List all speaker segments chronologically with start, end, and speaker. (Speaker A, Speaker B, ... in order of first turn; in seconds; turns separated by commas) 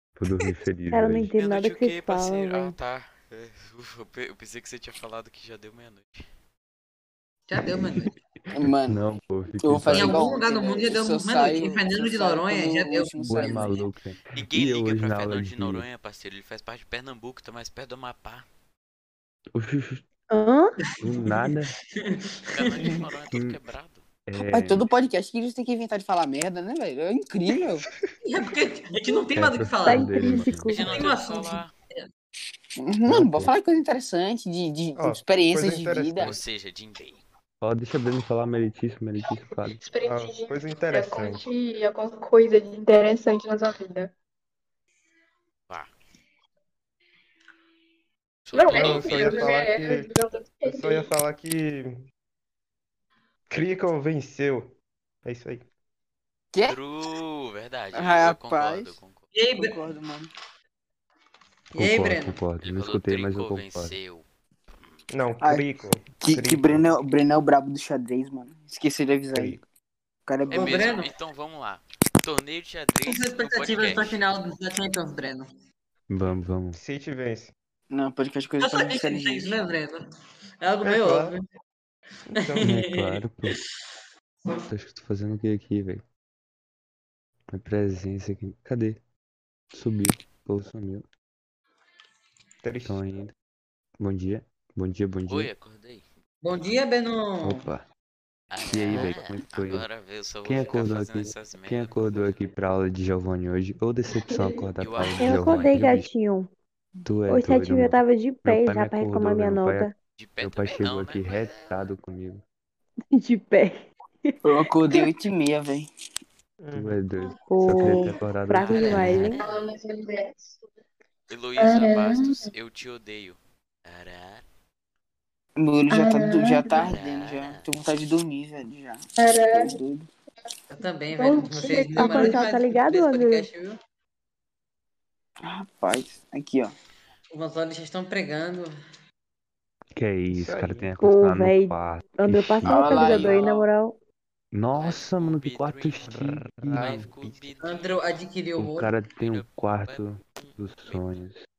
Speaker A: 0.2-1.3, Speaker B: 0.9-2.8, Speaker C: 1.4-6.3, Speaker D: 7.5-8.1, Speaker A: 7.7-8.1, Speaker E: 8.5-9.0, Speaker A: 8.7-10.3, Speaker E: 9.6-13.8, Speaker D: 9.9-13.8, Speaker A: 13.3-15.9, Speaker C: 14.3-18.4, Speaker A: 19.6-20.1, Speaker B: 20.3-20.7, Speaker D: 20.9-23.0, Speaker A: 21.0-21.7, Speaker C: 22.5-24.1, Speaker A: 23.3-23.6, Speaker A: 24.3-24.9, Speaker E: 24.4-27.9, Speaker D: 28.2-32.1, Speaker A: 29.3-31.0, Speaker B: 29.8-30.9, Speaker C: 30.7-31.7, Speaker E: 32.8-36.4, Speaker A: 33.1-33.5, Speaker F: 35.0-36.4, Speaker C: 36.2-37.2, Speaker A: 37.6-39.8, Speaker G: 39.2-44.1, Speaker F: 40.1-41.4, Speaker C: 48.5-49.6, Speaker G: 48.5-51.1, Speaker F: 48.7-50.1, Speaker F: 50.6-52.1, Speaker F: 53.5-55.7, Speaker E: 56.5-56.8, Speaker C: 56.7-59.2, Speaker E: 57.9-59.0, Speaker D: 59.3-59.8, Speaker E: 59.6-60.3, Speaker D: 61.7-62.4, Speaker A: 61.8-64.0, Speaker C: 62.6-65.0, Speaker F: 65.1-66.9, Speaker E: 65.4-65.7, Speaker E: 66.2-69.6, Speaker F: 69.3-69.6, Speaker E: 70.3-71.0, Speaker D: 70.5-71.1, Speaker C: 70.5-74.2, Speaker D: 73.1-75.5, Speaker A: 76.1-76.8, Speaker F: 76.7-77.5, Speaker E: 77.9-79.5, Speaker D: 78.6-80.0, Speaker D: 80.6-81.4, Speaker F: 80.8-81.3, Speaker F: 82.3-82.7, Speaker D: 82.3-83.6, Speaker A: 82.6-83.6, Speaker A: 84.7-86.0, Speaker A: 87.5-89.0, Speaker A: 89.7-91.1, Speaker F: 92.6-93.0, Speaker A: 92.8-93.3, Speaker A: 94.0-95.5, Speaker C: 95.3-96.0, Speaker D: 96.4-97.6, Speaker A: 97.4-97.9, Speaker C: 98.5-102.5, Speaker A: 98.7-99.9, Speaker A: 100.4-106.1, Speaker G: 104.2-104.7, Speaker C: 104.8-105.8, Speaker B: 105.2-106.5, Speaker A: 107.0-112.4, Speaker B: 107.3-109.9, Speaker C: 110.2-111.8, Speaker B: 113.1-114.4, Speaker E: 114.4-115.9, Speaker F: 116.6-117.0, Speaker A: 116.7-119.4, Speaker B: 117.5-119.4, Speaker E: 117.7-118.1, Speaker C: 118.6-119.4, Speaker D: 118.9-119.5, Speaker G: 119.3-120.6, Speaker C: 121.3-124.4, Speaker G: 121.6-122.5, Speaker E: 125.6-130.1, Speaker G: 125.9-127.0, Speaker C: 126.8-127.7, Speaker G: 129.2-129.8, Speaker D: 130.7-133.8, Speaker G: 131.1-132.5, Speaker B: 132.0-133.5, Speaker E: 135.4-136.7, Speaker D: 137.3-138.7, Speaker A: 139.9-143.3, Speaker F: 140.3-140.9, Speaker B: 141.0-144.0, Speaker E: 142.6-143.5, Speaker A: 144.5-147.5, Speaker C: 144.8-146.2, Speaker F: 146.1-147.1, Speaker C: 146.7-148.0, Speaker D: 147.6-148.9, Speaker A: 148.6-151.4, Speaker C: 149.2-151.1